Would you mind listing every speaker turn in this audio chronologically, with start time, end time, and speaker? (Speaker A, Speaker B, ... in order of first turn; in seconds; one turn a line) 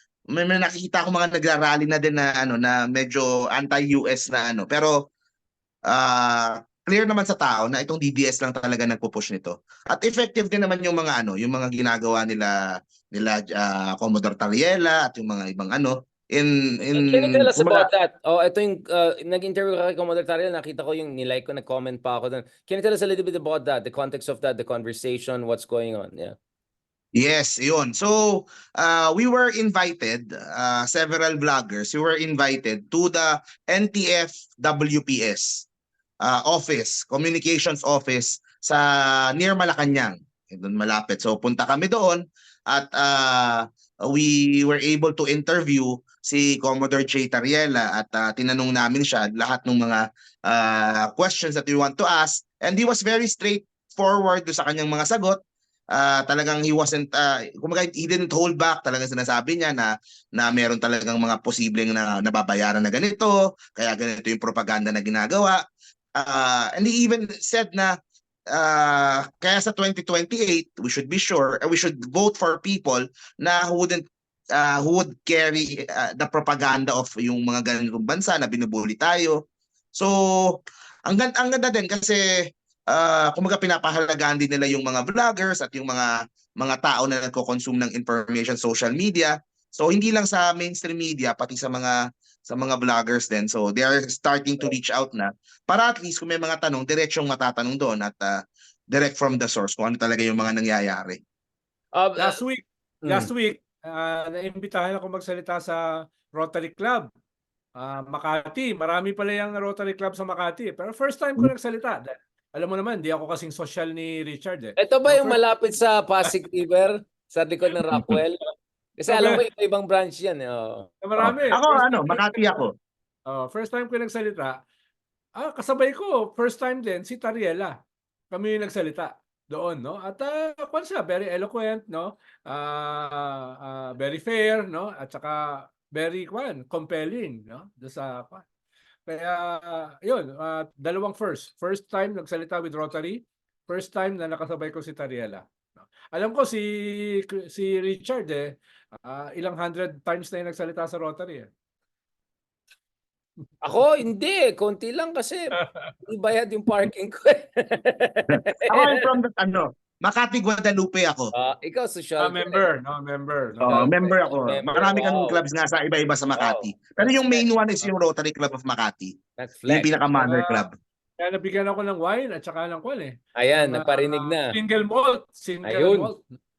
Speaker A: 0.3-4.9
Speaker A: 5.9-12.6
Speaker A: 13.1-17.9
Speaker B: 16.9-26.4
Speaker A: 27.2-35.7
Speaker A: 36.2-55.4
Speaker A: 55.9-65.6
Speaker A: 66.2-68.0
Speaker A: 68.5-79.4
Speaker A: 79.9-82.2
Speaker A: 82.9-92.0
Speaker A: 92.5-98.3
Speaker A: 98.9-101.2
Speaker B: 101.9-102.4
Speaker C: 102.2-107.1
Speaker B: 103.0-103.3
Speaker C: 107.8-115.4
Speaker B: 114.8-118.4
Speaker B: 119.0-120.9
Speaker C: 119.1-119.4
Speaker C: 121.0-122.5
Speaker A: 121.2-122.7
Speaker C: 123.3-124.6
Speaker C: 125.4-127.7
Speaker C: 128.3-138.4
Speaker C: 139.1-146.7
Speaker C: 147.2-148.5
Speaker C: 149.0-151.5
Speaker B: 153.6-159.1
Speaker C: 155.6-155.9
Speaker A: 158.7-161.3
Speaker B: 161.3-162.7
Speaker C: 162.2-163.9
Speaker A: 163.6-169.2
Speaker B: 163.6-165.4
Speaker B: 166.3-167.5
Speaker B: 169.4-169.9
Speaker A: 169.7-170.7
Speaker C: 170.2-170.7
Speaker C: 171.2-176.3
Speaker B: 173.3-174.6
Speaker B: 175.6-176.1